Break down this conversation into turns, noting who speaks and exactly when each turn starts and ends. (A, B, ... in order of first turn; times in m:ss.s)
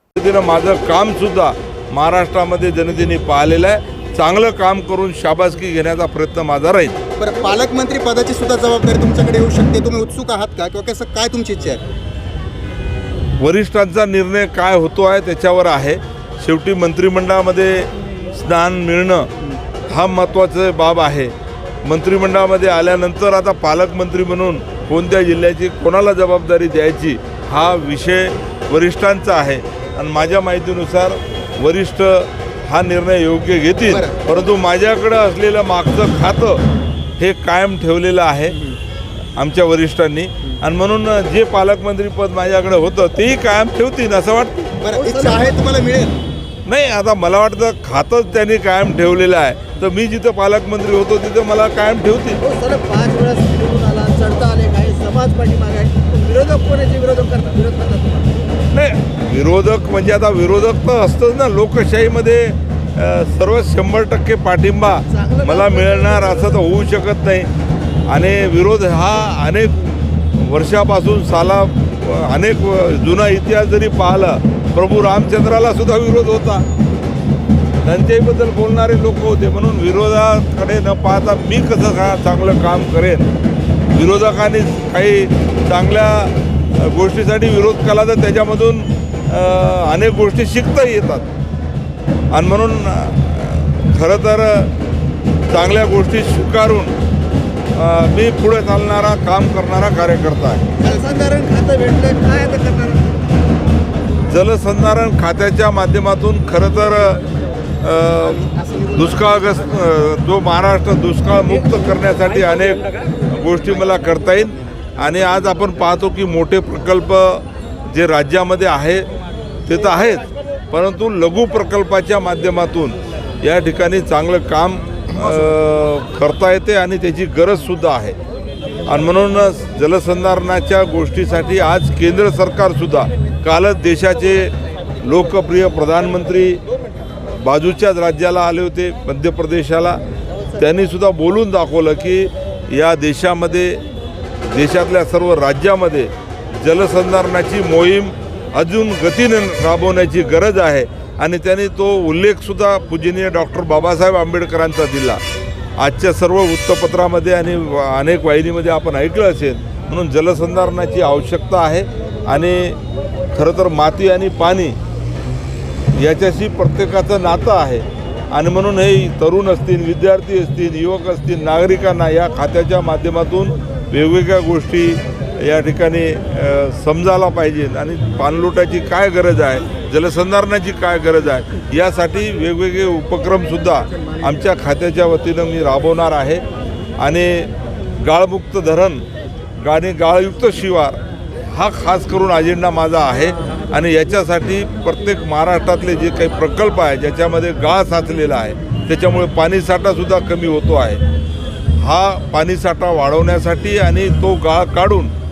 0:00.1-0:07.0 A
0:07.2-0:11.8 B
0:13.4-0:19.3 A
0:19.9-0:21.3 A
0:21.8-0:36.6 A
0:33.9-0:34.2 B
0:37.2-0:38.6 A
0:39.3-0:44.7 A
0:44.8-0:46.1 B
0:44.9-0:45.6 C
0:46.6-0:52.4 A
0:52.4-0:58.4 C
0:58.7-1:07.5 A
1:04.8-1:06.7 C
1:08.1-1:16.6 A
1:17.8-1:23.3 A
1:23.9-1:31.3 A
1:32.3-1:34.7 A
1:35.5-1:36.9 A
1:37.7-1:40.7 A
1:40.8-1:43.2 C
1:44.3-1:47.2 A
1:47.8-1:59.1 A
1:59.6-2:08.2 A
2:08.8-2:16.6 A
2:17.4-2:20.0 A
2:20.5-2:23.8 A
2:24.5-2:35.2 A
2:35.8-2:42.8 A
2:43.3-2:44.8 A
2:45.9-3:06.4 A
3:07.0-3:09.0 A
3:09.6-3:21.0 A
3:21.7-3:25.1 A